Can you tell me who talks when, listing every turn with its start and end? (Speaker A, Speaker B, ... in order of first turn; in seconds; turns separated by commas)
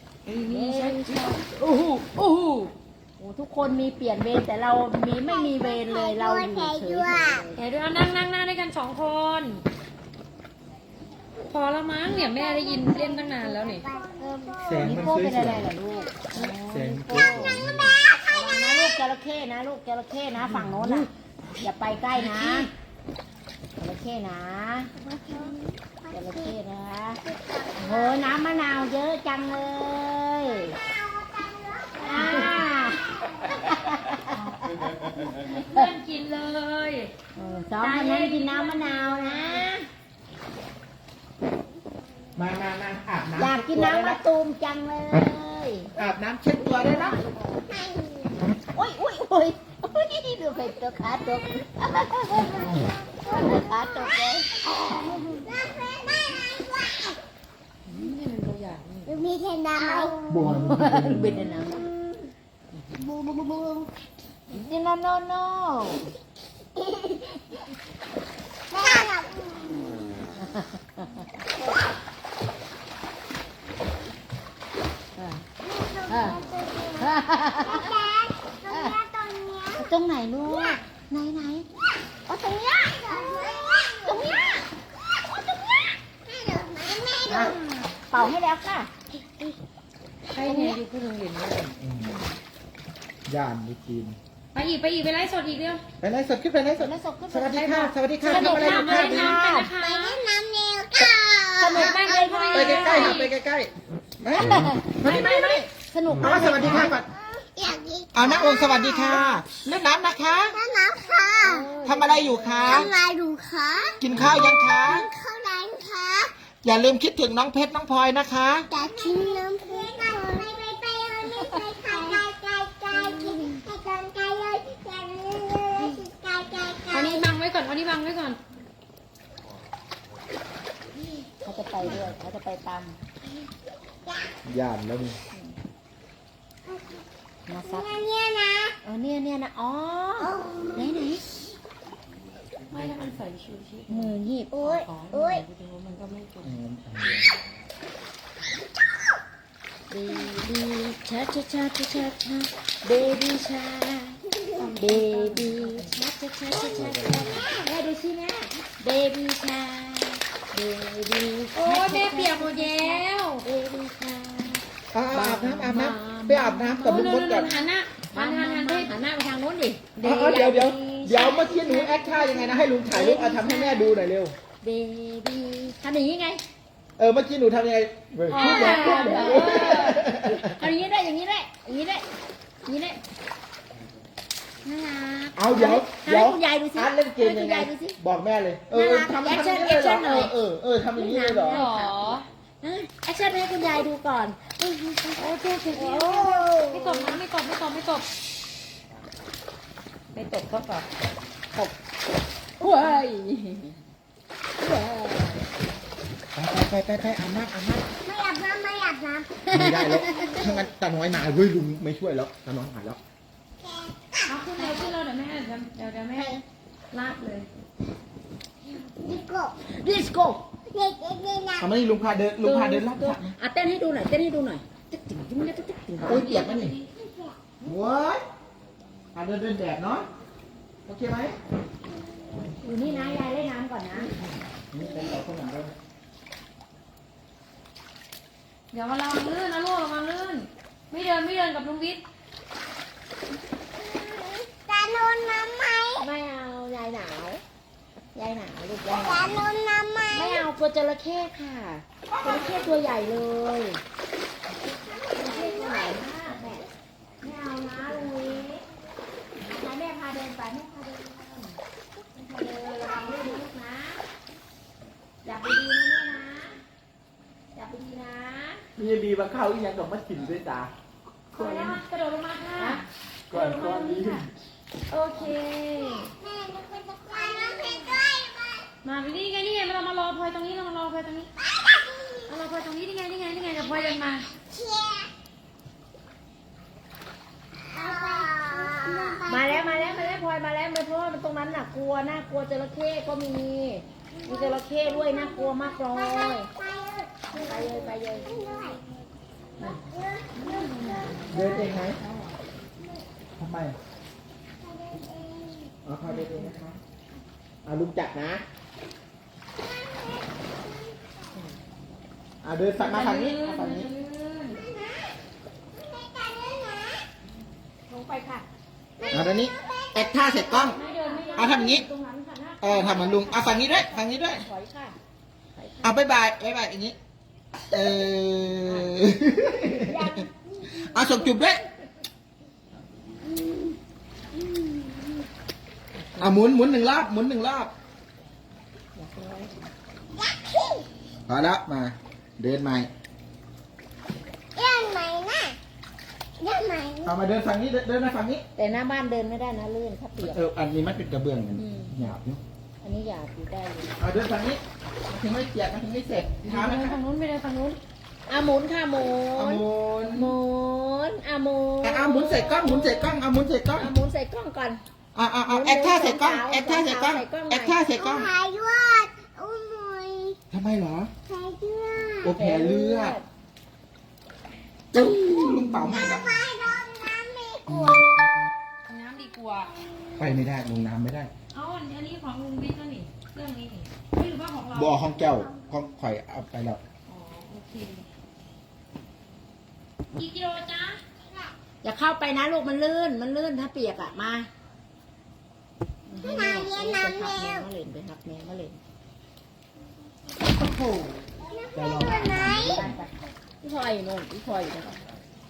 Speaker A: 0.3-2.7, Speaker B: 0.5-1.4, Speaker B: 3.2-7.6, Speaker C: 5.2-7.5, Speaker A: 7.6-9.6, Speaker A: 11.5-13.8, Speaker C: 12.1-15.0, Speaker B: 14.0-17.5, Speaker D: 14.6-15.7, Speaker C: 15.8-16.1, Speaker A: 16.3-17.3, Speaker D: 16.6-18.0, Speaker B: 18.3-21.1, Speaker D: 20.6-20.9, Speaker B: 21.6-22.7, Speaker A: 22.2-22.7, Speaker B: 23.8-24.9, Speaker C: 25.0-26.6, Speaker B: 26.1-27.2, Speaker C: 27.2-28.6, Speaker B: 27.8-30.8, Speaker C: 30.5-33.8, Speaker A: 32.0-32.6, Speaker B: 32.0-35.9, Speaker A: 35.4-37.1, Speaker B: 37.4-39.9, Speaker A: 37.8-39.7, Speaker D: 42.4-44.2, Speaker B: 43.4-45.9, Speaker D: 45.9-47.2, Speaker B: 46.7-47.2, Speaker C: 47.0-48.4, Speaker B: 48.7-55.2, Speaker C: 52.5-54.2, Speaker C: 54.9-57.2, Speaker A: 57.9-59.1, Speaker C: 59.1-60.5, Speaker B: 59.8-61.9, Speaker D: 60.3-61.4, Speaker B: 63.0-63.8, Speaker B: 64.5-66.1, Speaker C: 68.7-69.8, Speaker B: 70.4-71.2, Speaker B: 75.2-75.4, Speaker C: 75.6-79.9, Speaker B: 76.1-76.5, Speaker B: 77.0-77.9, Speaker B: 78.7-79.0, Speaker B: 79.8-81.7, Speaker C: 82.3-84.5, Speaker B: 84.0-84.7, Speaker B: 85.3-85.9, Speaker C: 86.3-87.6, Speaker B: 87.3-88.9, Speaker A: 90.3-91.7, Speaker B: 90.4-90.8, Speaker D: 91.8-92.2, Speaker D: 93.3-94.2, Speaker A: 94.5-95.8, Speaker D: 96.0-99.4, Speaker B: 96.8-99.7, Speaker A: 98.2-100.2, Speaker C: 99.8-102.0, Speaker B: 101.6-103.2, Speaker A: 101.7-103.3, Speaker D: 102.5-105.5, Speaker B: 104.4-107.0, Speaker D: 106.1-107.1, Speaker C: 107.1-109.3, Speaker D: 108.1-110.6, Speaker C: 110.3-111.7, Speaker B: 111.4-112.9, Speaker A: 111.5-112.2, Speaker D: 111.8-112.9, Speaker C: 112.6-116.3, Speaker D: 114.0-115.1, Speaker D: 116.6-118.7, Speaker C: 118.7-127.3, Speaker B: 122.9-123.6, Speaker A: 126.9-128.4, Speaker B: 131.4-133.0, Speaker C: 133.3-134.4, Speaker D: 134.4-135.2, Speaker C: 136.7-137.0, Speaker B: 137.5-137.9, Speaker C: 137.6-138.8, Speaker B: 138.8-141.6, Speaker C: 140.2-140.9, Speaker A: 142.7-146.6, Speaker B: 143.9-144.6, Speaker C: 144.5-145.4, Speaker D: 146.4-147.3, Speaker B: 149.9-154.2, Speaker A: 154.6-156.0, Speaker B: 154.8-173.9, Speaker D: 156.5-157.4, Speaker A: 161.6-163.4, Speaker D: 164.9-167.5, Speaker A: 166.8-169.0, Speaker D: 170.0-174.3, Speaker A: 172.2-172.5, Speaker B: 174.6-176.4, Speaker D: 177.0-180.6, Speaker A: 178.3-180.0, Speaker B: 178.3-182.0, Speaker B: 182.7-183.0, Speaker B: 184.6-188.0, Speaker D: 185.4-191.7, Speaker B: 188.7-190.3, Speaker B: 190.9-197.2, Speaker A: 191.5-192.3, Speaker A: 195.2-198.1, Speaker A: 200.1-200.9, Speaker B: 202.6-203.8, Speaker B: 204.6-205.5, Speaker D: 206.3-207.9, Speaker C: 208.0-210.7, Speaker B: 209.5-210.5, Speaker D: 209.5-213.0, Speaker C: 213.6-214.9, Speaker A: 214.3-216.4, Speaker C: 216.2-216.4, Speaker A: 216.9-217.5, Speaker C: 218.7-219.6, Speaker B: 219.7-220.4, Speaker C: 220.7-221.7, Speaker D: 221.6-223.3, Speaker B: 222.4-226.3, Speaker D: 226.0-226.8, Speaker A: 226.0-226.8, Speaker C: 226.9-227.4, Speaker D: 227.6-228.2, Speaker D: 229.2-230.1, Speaker D: 230.9-231.4, Speaker B: 232.6-234.1, Speaker A: 232.9-233.2, Speaker D: 234.7-235.7, Speaker A: 238.7-242.0, Speaker C: 243.8-246.1, Speaker B: 246.0-247.4, Speaker B: 248.2-249.4, Speaker C: 248.9-250.5, Speaker B: 250.1-253.8, Speaker D: 252.2-252.7, Speaker C: 254.6-256.0, Speaker B: 255.1-256.6, Speaker B: 257.2-258.6, Speaker B: 259.4-261.6, Speaker B: 262.2-264.0, Speaker B: 265.2-266.6, Speaker B: 267.6-268.6, Speaker D: 268.8-270.7, Speaker A: 271.3-272.8, Speaker B: 271.3-271.8, Speaker B: 272.6-274.2, Speaker D: 273.3-274.3, Speaker A: 274.9-276.1, Speaker C: 275.8-278.7, Speaker A: 278.8-281.3, Speaker C: 281.4-282.4, Speaker A: 282.3-284.3, Speaker C: 283.7-285.1, Speaker C: 287.7-290.2, Speaker B: 289.2-296.5, Speaker C: 294.1-299.0, Speaker B: 297.3-298.3, Speaker C: 299.6-301.4, Speaker A: 300.4-302.4, Speaker D: 301.3-302.0, Speaker D: 303.4-303.8, Speaker C: 304.6-305.8, Speaker D: 305.9-306.8, Speaker A: 306.1-306.6, Speaker D: 307.6-308.4, Speaker C: 309.6-311.4, Speaker D: 312.4-313.9, Speaker A: 312.8-314.6, Speaker C: 314.5-315.2, Speaker C: 315.7-317.1, Speaker B: 317.9-318.5, Speaker C: 319.0-321.0, Speaker D: 319.1-320.8, Speaker A: 320.5-323.2, Speaker B: 320.7-321.9, Speaker D: 321.4-321.9, Speaker D: 322.6-324.5, Speaker B: 322.6-325.0, Speaker D: 325.8-327.0, Speaker D: 327.7-330.3, Speaker B: 329.8-331.0, Speaker D: 330.8-331.6, Speaker D: 336.2-337.7, Speaker B: 339.0-339.5, Speaker C: 340.2-340.9, Speaker D: 341.3-342.9, Speaker C: 344.6-345.6, Speaker C: 346.4-347.1, Speaker D: 347.1-348.4, Speaker B: 348.6-350.4, Speaker D: 350.2-352.4, Speaker B: 351.6-351.9, Speaker B: 352.8-353.9, Speaker D: 354.0-357.0, Speaker A: 356.4-357.8, Speaker B: 358.3-363.2, Speaker D: 359.4-360.3, Speaker D: 361.8-363.9, Speaker B: 363.7-364.8, Speaker D: 365.1-368.3, Speaker B: 365.5-367.8, Speaker C: 367.9-370.4, Speaker D: 370.5-371.1, Speaker C: 371.3-372.3, Speaker D: 372.2-373.2, Speaker B: 372.3-373.3, Speaker B: 374.9-376.0, Speaker D: 375.0-376.3, Speaker C: 376.1-378.1, Speaker A: 378.9-379.7, Speaker D: 380.2-381.3, Speaker A: 381.5-385.1, Speaker D: 384.7-386.8, Speaker A: 387.1-388.1, Speaker A: 390.1-391.0, Speaker C: 391.2-391.5, Speaker B: 391.8-394.5, Speaker B: 396.1-398.8, Speaker C: 396.2-397.7, Speaker D: 400.5-401.2, Speaker C: 401.4-402.9, Speaker D: 401.7-403.0, Speaker B: 402.1-403.1, Speaker B: 403.6-405.0